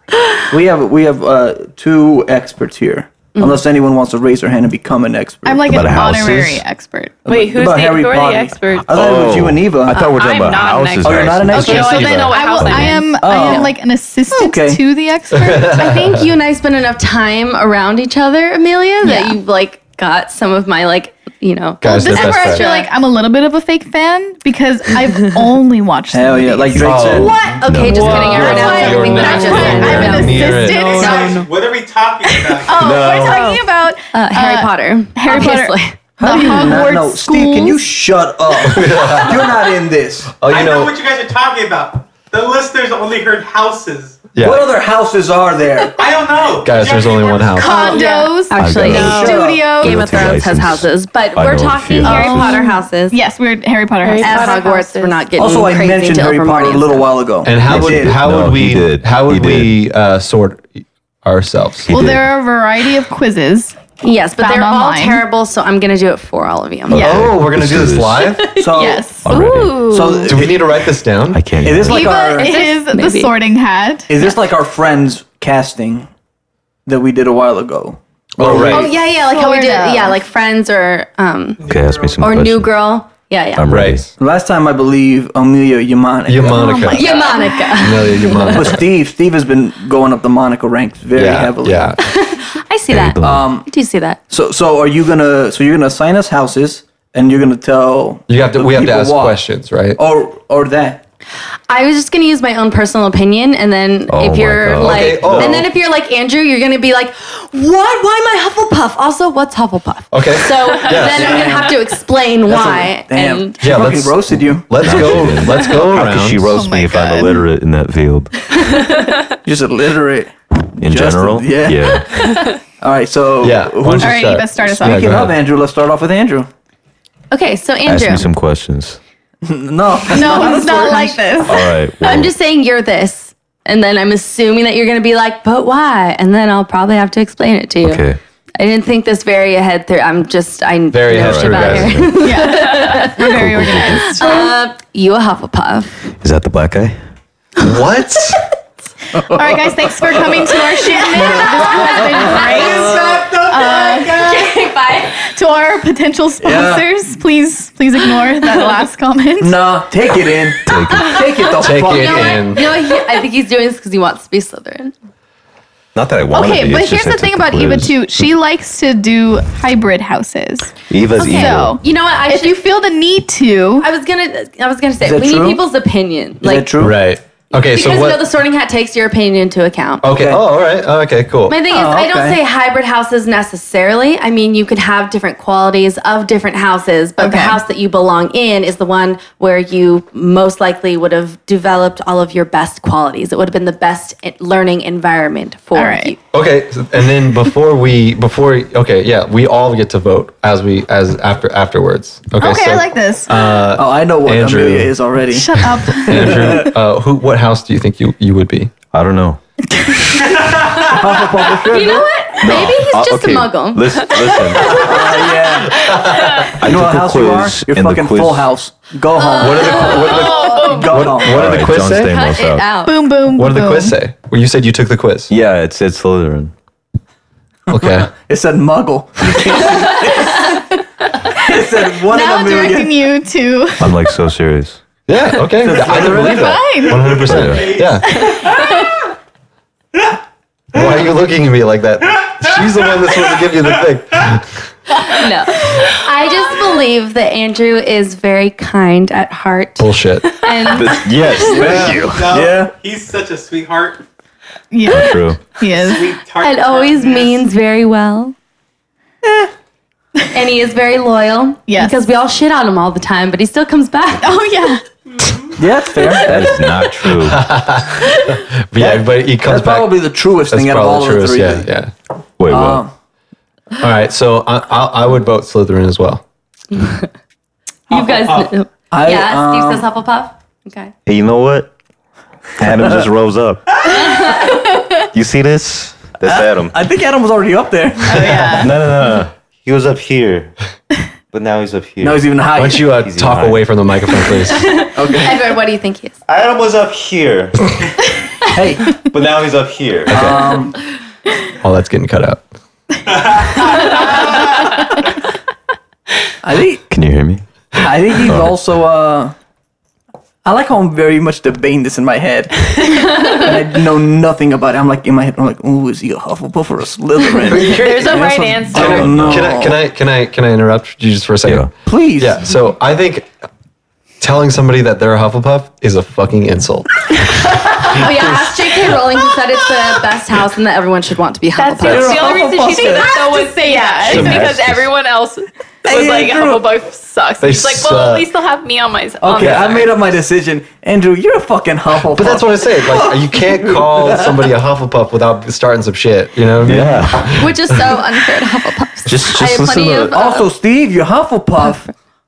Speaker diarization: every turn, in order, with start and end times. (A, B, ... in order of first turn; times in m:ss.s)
0:00.5-0:06.0 A
0:05.4-0:07.2 B
0:05.7-0:06.6 C
0:07.2-0:10.0 A
0:07.3-0:08.9 D
0:08.9-0:13.1 C
0:09.9-0:13.5 D
0:11.0-0:12.4 A
0:11.5-0:15.8 B
0:13.2-0:13.8 A
0:13.4-0:13.7 E
0:14.3-0:14.8 A
0:15.4-0:16.3 F
0:15.7-0:22.9 E
0:19.0-0:19.4 B
0:21.8-0:22.6 F
0:21.8-0:31.5 B
0:26.1-0:27.4 A
0:26.8-0:30.9 F
0:27.6-0:31.3 E
0:27.6-0:28.4 C
0:28.5-0:29.8 D
0:29.3-0:33.2 G
0:30.9-0:31.5 D
0:32.4-0:37.8 B
0:32.8-0:33.4 F
0:34.1-0:36.8 E
0:36.2-0:40.4 A
0:38.6-0:39.5 F
0:40.4-0:41.0 F
0:40.4-0:44.3 G
0:44.4-0:44.7 F
0:44.4-0:46.0 A
0:46.0-0:47.9 G
0:46.6-0:48.0 F
0:47.6-0:50.0 B
0:47.8-0:53.2 E
0:48.5-0:52.6 C
0:48.8-0:49.7 A
0:52.0-0:54.7 B
0:54.0-0:55.2 D
0:54.2-0:57.1 E
0:55.4-0:58.2 A
0:57.4-1:01.9 F
0:57.6-0:59.8 C
1:01.8-1:02.3 C
1:01.9-1:03.8 B
1:04.0-1:07.1 E
1:04.4-1:05.2 B
1:06.9-1:08.3 C
1:06.9-1:07.3 B
1:07.0-1:08.6 F
1:08.6-1:09.2 A
1:08.7-1:10.3 B
1:09.2-1:09.9 C
1:09.8-1:10.6 A
1:10.3-1:11.4 F
1:11.3-1:12.1 C
1:11.6-1:12.6 A
1:11.8-1:14.1 B
1:12.3-1:13.3 E
1:14.1-1:16.1 A
1:16.9-1:18.9 A
1:18.4-1:18.9 F
1:18.5-1:21.6 E
1:18.7-1:20.2 B
1:21.6-1:22.2 G
1:21.7-1:22.7 C
1:22.2-1:23.7 E
1:23.6-1:24.1 C
1:23.7-1:24.0 F
1:24.2-1:27.0 A
1:26.3-1:27.2 F
1:26.4-1:27.8 B
1:26.9-1:28.7 E
1:27.8-1:28.9 F
1:28.5-1:31.9 A
1:31.1-1:32.0 F
1:32.0-1:34.2 E
1:32.9-1:33.5 C
1:33.2-1:33.7 A
1:34.3-1:39.4 A
1:38.3-1:40.0 F
1:40.0-1:41.0 A
1:41.7-1:53.6 E
1:44.1-1:45.6 C
1:44.8-1:45.7 F
1:50.1-1:51.6 F
1:50.9-1:55.3 A
1:53.6-1:56.6 F
1:54.8-1:58.6 C
1:56.5-1:57.5 B
1:59.4-2:02.0 A
2:00.8-2:02.1 C
2:02.8-2:06.5 A
2:03.4-2:05.4 F
2:04.0-2:05.2 B
2:07.3-2:08.3 E
2:07.9-2:09.0 C
2:09.4-2:11.3 A
2:10.1-2:11.7 B
2:11.5-2:12.3 C
2:12.0-2:18.0 E
2:17.8-2:18.2 C
2:18.6-2:26.0 E
2:20.9-2:22.1 F
2:21.2-2:22.3 C
2:22.2-2:24.6 B
2:23.2-2:24.2 C
2:26.2-2:27.0 C
2:27.6-2:28.4 F
2:29.2-2:33.4 A
2:29.3-2:34.3 B
2:30.7-2:35.2 E
2:32.6-2:34.6 G
2:35.3-2:39.6 B
2:36.4-2:36.9 A
2:39.4-2:42.4 A
2:40.7-2:41.2 C
2:41.6-2:42.7 F
2:41.7-2:44.9 E
2:46.0-2:48.3 C
2:46.3-2:53.9 B
2:50.9-2:51.8 C
2:51.2-2:52.6 E
2:53.8-2:56.7 E
2:55.0-2:55.6 A
2:56.4-2:57.0 A
2:56.8-2:58.3 F
2:57.5-3:00.0 E
3:00.0-3:01.6 F
3:00.1-3:00.4 A
3:01.5-3:16.2 E
3:01.6-3:02.4 A
3:07.2-3:07.6 B
3:15.8-3:16.1 B
3:16.3-3:25.0 F
3:22.4-3:23.6 B
3:23.8-3:26.7 A
3:25.3-3:26.6 B
3:25.9-3:28.7 F
3:28.9-3:29.4 C
3:29.8-3:30.1 B
3:30.8-3:32.1 A
3:31.6-3:34.1 E
3:32.4-3:35.0 C
3:34.7-3:35.9 A
3:35.8-3:36.3 F
3:36.6-3:38.5 C
3:36.6-3:41.5 A
3:39.2-3:40.6 E
3:39.4-3:42.1 F
3:39.9-3:41.2 D
3:41.2-3:42.8 C
3:41.9-3:43.0 E
3:42.8-3:44.0 B
3:43.4-3:45.3 F
3:45.3-3:46.5 C
3:47.7-3:48.1 F
3:47.8-3:50.6 A
3:51.4-3:53.0 A
3:52.1-3:54.0 B
3:53.8-3:54.8 C
3:55.1-3:58.1 F
3:55.6-3:56.6 A
3:56.3-3:57.1 B
3:56.8-3:58.9 G
3:57.2-3:57.8 C
4:00.7-4:04.6 F
4:02.4-4:04.3 G
4:05.1-4:11.4 E
4:09.8-4:10.4 F
4:10.7-4:12.3 C
4:11.4-4:14.0 G
4:11.5-4:12.7 A
4:14.7-4:16.1 B
4:14.9-4:15.5 C
4:15.8-4:17.4 G
4:16.4-4:18.4 E
4:20.3-4:24.4 E
4:21.7-4:22.1 B
4:24.2-4:24.8 B
4:25.2-4:25.5 G
4:25.6-4:26.6 A
4:26.2-4:27.5 C
4:27.2-4:31.9 F
4:28.8-4:31.7 A
4:32.4-4:32.8 C
4:32.5-4:32.9 A
4:33.8-4:36.2 F
4:36.8-4:37.1 E
4:37.9-4:40.9 E
4:37.9-4:38.5 G
4:38.9-4:39.9 A
4:41.1-4:41.7 C
4:42.6-4:44.4 C
4:42.6-4:43.0 A
4:43.9-4:44.5 E
4:45.1-4:46.8 C
4:46.3-4:48.7 A
4:48.1-4:48.7 B
4:48.5-4:50.5 C
4:51.3-4:54.2 C
4:52.0-4:52.9 A
4:52.6-4:54.7 F
4:54.6-4:56.2 E
4:54.9-4:55.4 A
4:56.3-4:57.7 C
4:58.5-4:59.0 A
4:58.9-5:00.3 C
5:00.1-5:00.4 F
5:00.1-5:00.8 A
5:01.6-5:02.4 F
5:03.1-5:04.7 G
5:06.4-5:06.8 A
5:06.9-5:07.4 C
5:07.8-5:09.4 A
5:08.2-5:08.6 C
5:10.4-5:19.8 A
5:17.5-5:23.3 F
5:17.6-5:19.0 D
5:18.8-5:19.6 C
5:21.4-5:21.7 C
5:21.8-5:22.4 A
5:24.2-5:26.9 F
5:27.8-5:32.4 E
5:27.9-5:28.5 F
5:31.6-5:39.9 D
5:31.8-5:33.2 A
5:32.6-5:34.4 B
5:34.1-5:34.9 C
5:34.1-5:34.6 F
5:35.8-5:36.6 A
5:37.4-5:38.3 F
5:39.2-5:44.5 A
5:39.4-5:39.9 F
5:42.0-5:47.6 F
5:46.6-5:47.5 C
5:47.2-5:50.5 E
5:49.1-5:50.2 C
5:50.1-5:51.9 A